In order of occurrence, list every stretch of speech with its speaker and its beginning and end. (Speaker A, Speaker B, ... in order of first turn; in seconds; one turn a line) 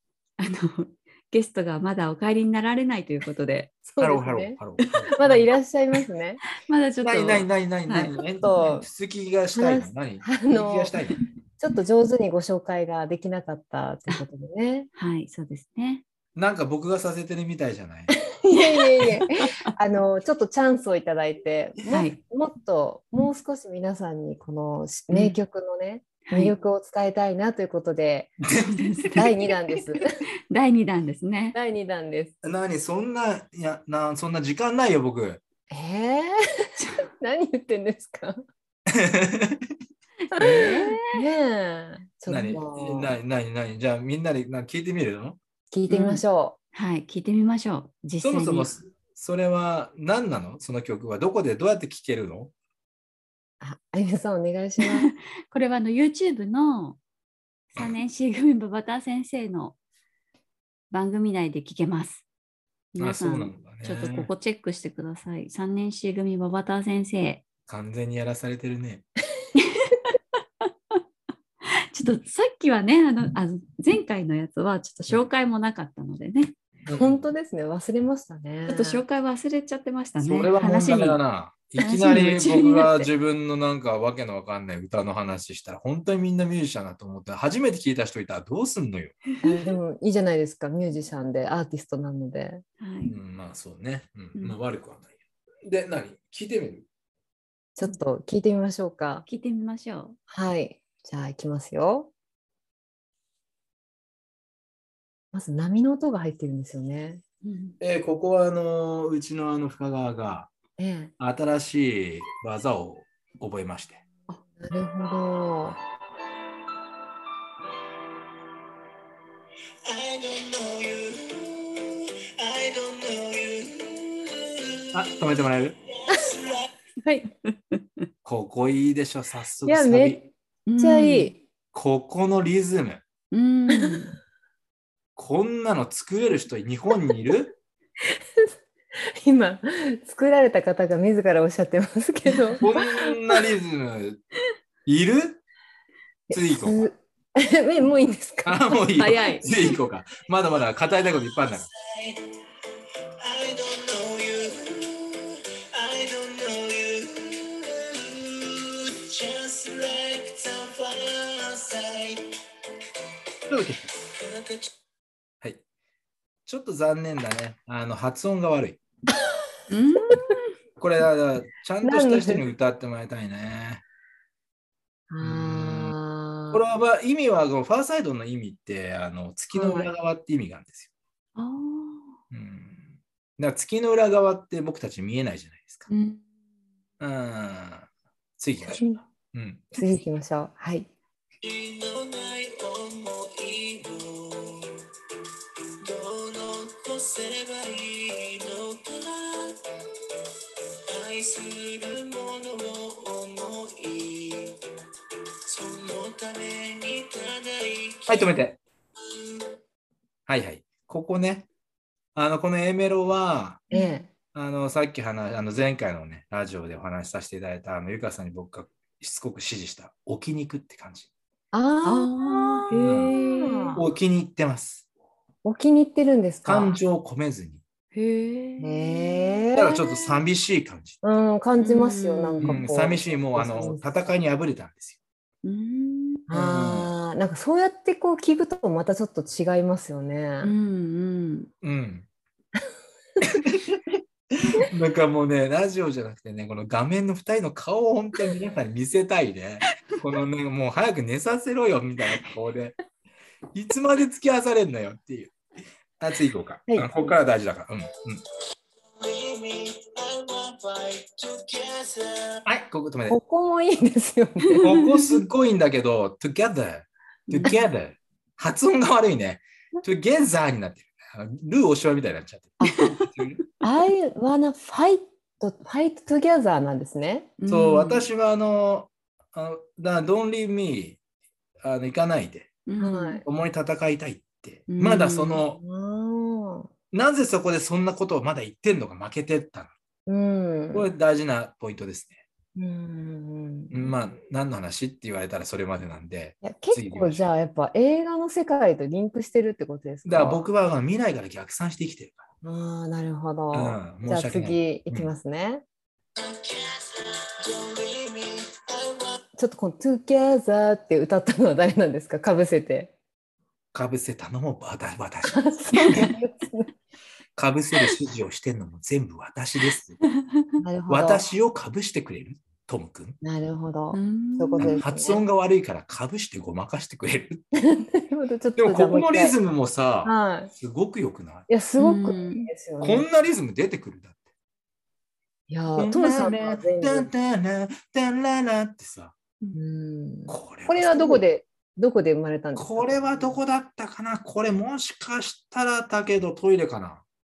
Speaker A: 0.4-3.7
Speaker B: 3.9-6.4
Speaker C: 4.0-5.4
Speaker A: 4.8-5.3
Speaker A: 6.6-8.1
Speaker C: 7.0-11.2
Speaker B: 8.4-8.9
Speaker B: 9.5-10.9
Speaker B: 11.6-14.9
Speaker A: 15.0-16.0
Speaker C: 16.4-18.1
Speaker B: 18.1-28.4
Speaker A: 19.0-19.5
Speaker A: 21.9-22.2
Speaker A: 25.1-25.4
Speaker A: 26.3-26.5
Speaker C: 28.4-29.3
Speaker A: 28.7-29.2
Speaker B: 29.2-30.1
Speaker A: 30.5-31.6
Speaker B: 31.6-32.4
Speaker C: 32.4-35.4
Speaker B: 35.7-36.7
Speaker B: 37.2-38.4
Speaker C: 38.9-39.7
Speaker A: 40.3-41.2
Speaker C: 40.4-40.8
Speaker B: 40.5-43.1
Speaker C: 42.3-45.4
Speaker B: 45.7-46.5
Speaker A: 45.9-46.2
Speaker A: 46.7-48.7
Speaker C: 48.2-52.5
Speaker B: 53.6-55.1
Speaker A: 54.8-57.0
Speaker A: 57.7-59.8
Speaker A: 60.9-62.2
Speaker A: 62.9-67.4
Speaker C: 63.0-64.3
Speaker C: 67.7-69.0
Speaker A: 69.6-70.1
Speaker A: 71.9-76.5
Speaker C: 76.8-77.3
Speaker B: 76.9-79.0
Speaker A: 78.7-81.2
Speaker C: 80.2-89.2
Speaker A: 81.8-83.1
Speaker B: 89.4-92.6
Speaker A: 92.8-93.2
Speaker C: 93.1-95.1
Speaker C: 95.7-96.8
Speaker B: 97.8-99.2
Speaker A: 99.2-100.2
Speaker B: 100.3-102.1
Speaker B: 105.3-107.2
Speaker A: 107.4-107.8
Speaker C: 107.8-110.5
Speaker B: 110.8-111.1
Speaker C: 111.2-114.0
Speaker B: 114.6-115.8
Speaker D: 119.9-121.4
Speaker D: 122.8-123.8
Speaker C: 124.9-125.8
Speaker B: 126.1-126.4
Speaker B: 127.0-127.3
Speaker C: 128.2-130.2
Speaker B: 129.7-131.4
Speaker A: 130.7-131.3
Speaker C: 131.7-133.0
Speaker A: 133.3-134.2
Speaker C: 135.2-137.5
Speaker B: 138.1-138.5
Speaker B: 139.2-142.6
Speaker A: 142.2-143.1
Speaker C: 142.6-144.2
Speaker C: 144.8-145.4
Speaker B: 146.3-149.3
Speaker C: 146.3-146.9
Speaker C: 148.4-151.7
Speaker A: 148.9-149.8
Speaker D: 156.5-157.3
Speaker D: 159.1-161.0
Speaker C: 163.5-163.9
Speaker C: 166.4-168.8
Speaker A: 169.7-170.5
Speaker C: 170.8-173.8
Speaker B: 171.8-172.5
Speaker B: 175.1-176.6
Speaker C: 175.2-175.9
Speaker C: 176.5-180.9
Speaker B: 179.5-179.9
Speaker A: 181.3-182.2
Speaker C: 182.3-185.9
Speaker A: 185.9-186.2
Speaker C: 187.0-187.9
Speaker C: 188.4-189.8
Speaker B: 188.6-189.0
Speaker B: 189.8-190.9
Speaker A: 195.9-196.8
Speaker A: 197.7-198.0
Speaker D: 201.0-201.5
Speaker D: 202.1-202.4
Speaker D: 203.0-204.1
Speaker D: 206.1-206.6
Speaker C: 208.1-208.6
Speaker C: 210.3-211.5
Speaker C: 212.1-213.6
Speaker A: 213.7-214.0
Speaker B: 213.7-214.1
Speaker C: 214.3-221.1
Speaker B: 221.5-223.8
Speaker A: 221.8-223.8
Speaker C: 222.8-223.1
Speaker C: 223.8-224.8
Speaker B: 225.4-226.8
Speaker C: 226.4-227.6
Speaker A: 227.9-229.4
Speaker B: 228.6-229.8
Speaker C: 229.5-231.0
Speaker B: 231.0-234.0
Speaker A: 231.6-232.7
Speaker C: 232.4-235.0
Speaker A: 235.4-236.3
Speaker B: 236.3-240.5
Speaker C: 236.3-236.9
Speaker A: 240.4-241.5
Speaker C: 241.6-242.1
Speaker C: 243.2-244.0
Speaker C: 244.7-252.8
Speaker C: 253.5-255.3
Speaker C: 256.0-258.2
Speaker B: 256.7-257.0
Speaker D: 259.4-260.8
Speaker C: 262.4-263.2
Speaker B: 263.1-264.8
Speaker C: 264.6-273.4
Speaker A: 264.6-265.2
Speaker A: 267.3-267.6
Speaker A: 272.6-272.9
Speaker B: 273.6-277.3
Speaker A: 277.4-278.1
Speaker C: 277.5-281.0
Speaker C: 281.6-282.5
Speaker A: 282.6-283.2
Speaker B: 282.8-283.2
Speaker C: 283.2-285.6
Speaker A: 284.7-285.4
Speaker B: 285.5-286.7
Speaker C: 286.9-289.7
Speaker B: 290.1-290.9
Speaker C: 290.7-292.2
Speaker B: 292.6-293.9
Speaker C: 293.7-297.2
Speaker B: 296.4-300.5
Speaker C: 300.1-302.2
Speaker B: 302.4-305.6
Speaker C: 303.5-305.1
Speaker A: 307.6-308.6
Speaker B: 309.4-312.9
Speaker C: 313.7-316.1
Speaker B: 315.3-316.7
Speaker A: 315.8-316.1
Speaker C: 317.4-320.0
Speaker B: 320.6-321.2
Speaker C: 320.9-323.2
Speaker B: 323.2-325.2
Speaker A: 323.9-325.1
Speaker C: 324.6-327.4
Speaker B: 327.6-329.4
Speaker C: 328.6-331.5
Speaker B: 330.0-330.5
Speaker B: 331.5-333.1
Speaker A: 331.8-332.5
Speaker C: 332.8-334.1
Speaker B: 335.5-337.1
Speaker C: 335.8-339.1
Speaker B: 339.5-343.4
Speaker C: 340.3-341.2
Speaker C: 342.6-347.0